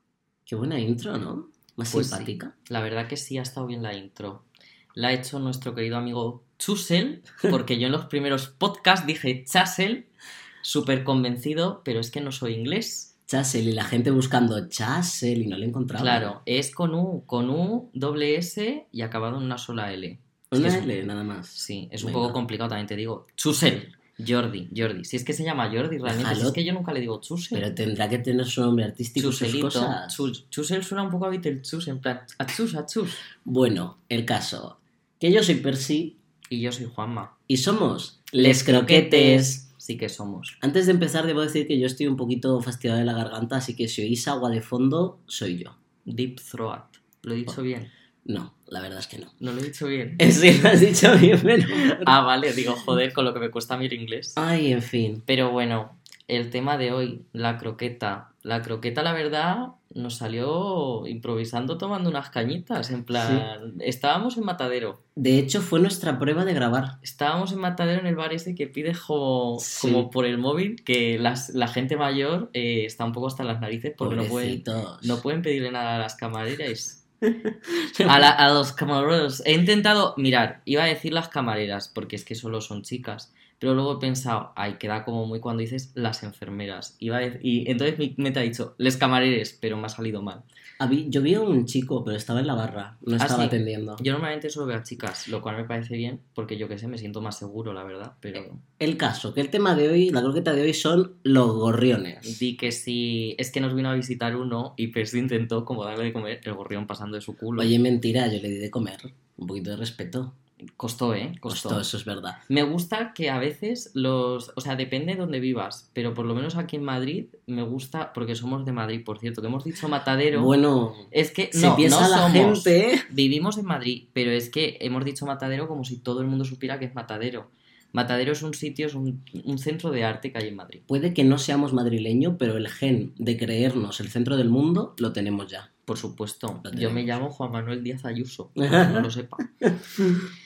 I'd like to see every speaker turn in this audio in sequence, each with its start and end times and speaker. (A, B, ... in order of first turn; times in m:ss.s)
0:00.5-0:02.5 A
0:01.9-0:10.1 B
0:10.6-0:13.1 B
0:13.3-0:16.3 A
0:16.0-0:20.9 B
0:20.5-0:22.4 A
0:21.5-0:27.7 B
0:26.0-0:26.6 A
0:27.5-0:30.3 A
0:29.2-0:33.2 B
0:33.4-0:36.2 A
0:36.5-0:37.3 B
0:37.5-0:39.6 A
0:38.4-0:40.6 B
0:40.6-0:45.8 A
0:46.0-0:47.9 B
0:48.2-0:49.3 A
0:49.4-0:50.2 B
0:50.2-0:52.1 A
0:52.0-0:54.4 B
0:54.4-0:55.2 A
0:55.2-1:05.0 B
1:03.1-1:03.5 A
1:05.2-1:07.0 A
1:07.0-1:17.0 B
1:09.6-1:10.1 A
1:14.0-1:15.2 A
1:17.5-1:18.3 A
1:18.0-1:30.4 B
1:30.8-1:34.0 A
1:33.2-1:38.6 B
1:38.3-1:42.4 A
1:42.2-1:47.7 B
1:47.6-1:50.3 A
1:50.8-1:51.9 B
1:51.5-1:52.4 A
1:52.5-2:00.5 B
2:00.3-2:03.1 A
2:01.1-2:10.8 B
2:10.9-2:15.7 A
2:15.9-2:19.5 B
2:16.6-2:17.2 A
2:18.6-2:19.1 A
2:19.6-2:20.2 A